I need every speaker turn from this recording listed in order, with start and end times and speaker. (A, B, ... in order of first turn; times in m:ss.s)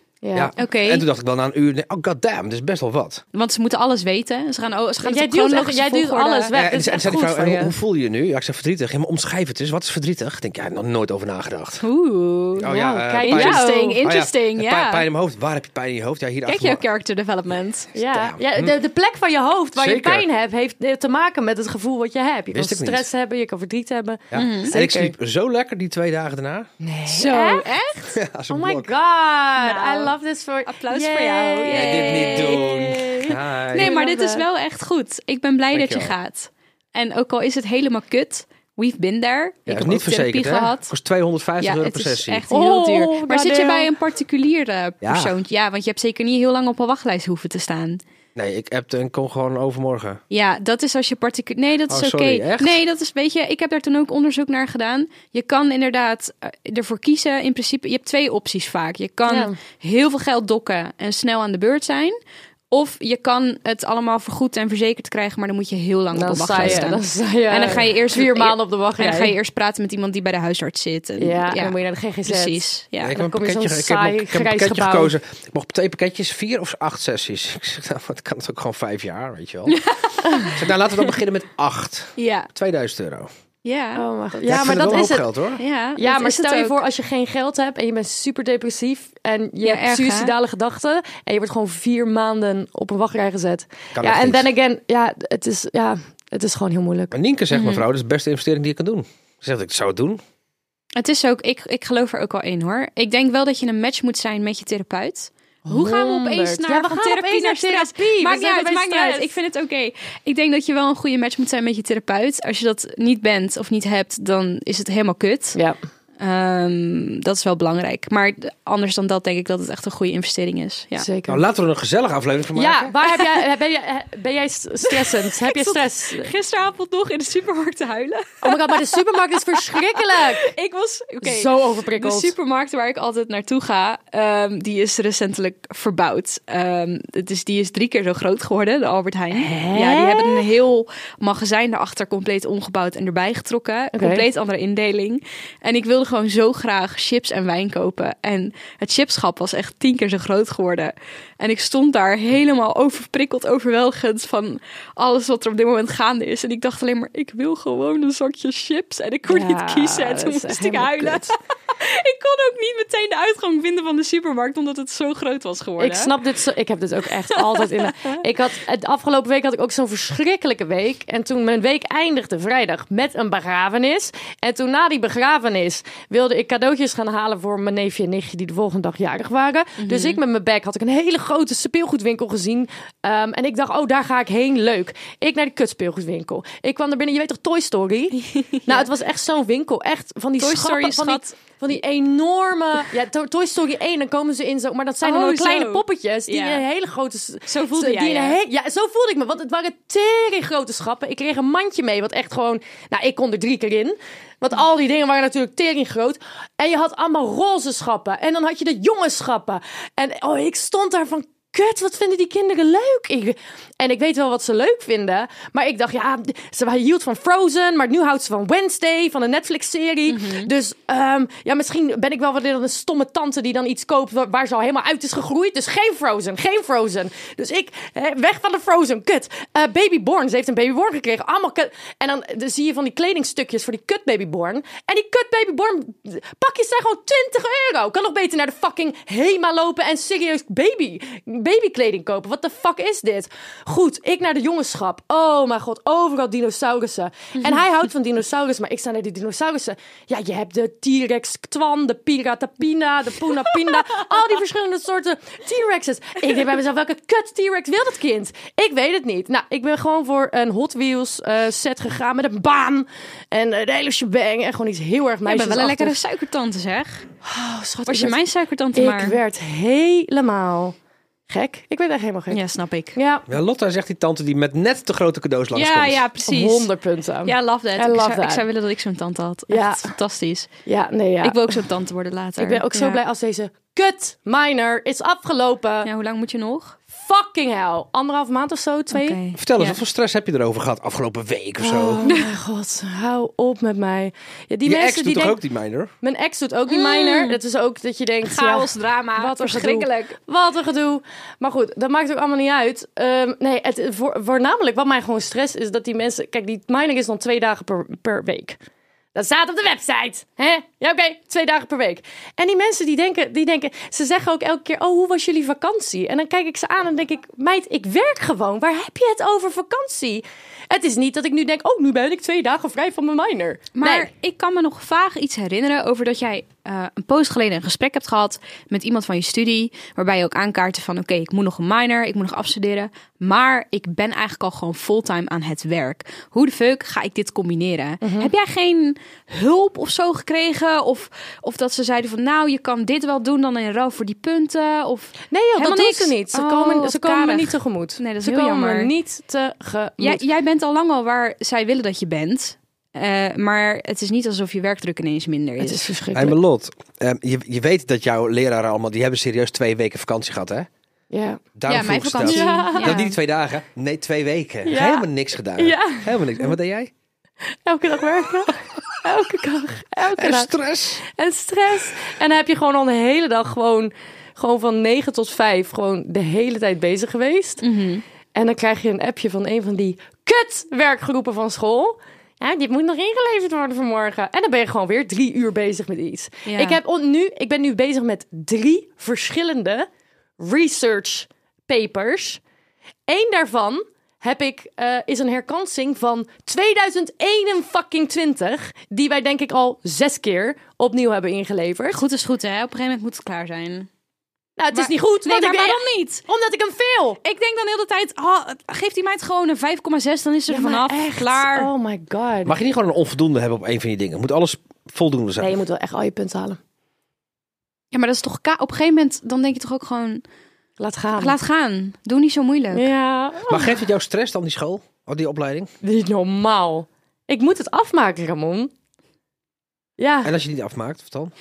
0:00.2-0:00.5 A
0:00.3-0:03.2 B
0:00.6-0:01.0 C
0:03.3-0:06.5 C
0:05.0-0:07.7 A
0:06.5-0:11.8 B
0:11.8-0:12.6 C
0:12.6-0:16.8 B
0:12.6-0:14.0 A
0:13.2-0:15.0 C
0:16.4-0:17.9 C
0:17.9-0:25.1 A
0:18.0-0:18.7 B
0:19.8-0:20.2 B
0:22.5-0:23.1 B
0:24.3-0:26.7 B
0:24.3-0:24.7 C
0:26.8-0:27.6 A
0:27.1-0:28.2 C
0:28.1-0:28.9 B
0:28.5-0:34.4 A
0:29.6-0:30.1 C
0:30.6-0:32.7 C
0:31.7-0:33.9 B
0:33.7-0:40.9 C
0:35.7-0:36.2 B
0:39.7-0:42.4 B
0:41.6-0:48.0 C
0:42.5-0:43.9 A
0:45.0-0:45.3 B
0:48.4-0:50.2 B
0:50.3-1:02.1 C
0:51.9-0:52.8 B
0:59.3-0:59.6 A
1:02.7-1:11.7 C
1:06.1-1:09.3 A
1:06.6-1:06.9 B
1:11.2-1:15.2 A
1:12.2-1:13.1 C
1:13.0-1:19.8 B
1:19.7-1:20.5 C
1:20.4-1:23.3 B
1:22.2-1:22.5 C
1:23.6-1:24.4 C
1:23.9-1:25.3 A
1:24.4-1:25.6 B
1:25.6-1:26.8 C
1:26.0-1:37.2 A
1:29.6-1:30.3 C
1:33.9-1:34.5 B
1:37.1-1:40.2 B
1:37.5-1:37.8 C
1:41.0-1:55.6 C
1:45.6-1:49.3 A
1:56.2-2:01.1 C
2:01.0-2:01.4 A
2:01.3-2:02.9 B
2:02.5-2:06.3 A
2:03.0-2:03.4 C
2:04.8-2:09.0 C
2:08.4-2:10.5 A
2:09.5-2:46.2 C
2:11.2-2:12.3 A
2:19.3-2:20.5 A
2:23.9-2:24.2 A
2:39.3-2:41.3 A
2:45.8-4:26.0 A
2:47.3-2:47.7 C
2:59.8-3:00.2 C
3:08.1-3:08.9 C
3:10.4-3:11.4 C
3:15.0-3:16.6 C
3:17.5-3:18.4 C
3:40.1-3:40.5 C
4:25.2-4:27.0 C
4:27.2-4:28.2 A
4:27.9-4:29.2 C
4:28.7-4:30.7 A
4:31.3-4:32.4 A
4:32.3-4:33.0 C
4:32.9-4:33.3 A
4:33.3-4:36.0 B
4:35.5-4:36.7 C
4:36.2-4:38.4 A
4:37.2-4:40.5 C
4:39.5-4:39.9 A
4:40.6-4:41.6 A
4:41.2-4:43.0 C
4:42.4-4:45.9 A
4:45.8-4:46.8 C
4:46.9-4:49.2 A
4:48.9-4:49.8 C
4:49.3-4:52.0 B
4:51.6-4:55.4 A
4:54.6-4:55.9 B
4:56.0-5:08.6 A
4:56.7-4:57.4 C
4:58.2-5:00.2 C
5:09.1-5:24.1 A
5:23.7-5:48.9 C
5:38.0-5:38.3 A
5:45.3-5:50.2 A
5:50.0-5:55.8 C
5:55.6-5:56.4 A
5:56.1-6:00.7 B
6:01.1-6:01.4 A
6:01.6-6:06.9 B
6:01.7-6:03.1 C
6:02.2-6:03.1 A
6:04.6-6:06.5 A
6:07.6-6:17.6 A
6:10.0-6:11.0 B
6:17.6-6:18.0 C
6:18.3-6:29.9 A
6:26.4-6:26.8 C
6:30.4-6:32.4 A
6:33.1-6:42.0 A
6:41.9-6:43.9 C
6:44.6-6:47.2 A
6:44.7-6:46.2 C
6:47.2-6:51.7 C
6:50.5-6:52.6 A
6:52.4-6:55.6 B
6:55.4-6:56.6 A
6:57.9-7:00.2 C
7:00.8-7:01.3 A
7:01.2-7:02.9 C
7:02.7-7:03.8 A
7:03.5-7:05.7 B
7:05.8-7:08.7 A
7:10.0-7:10.3 A
7:10.2-7:11.3 B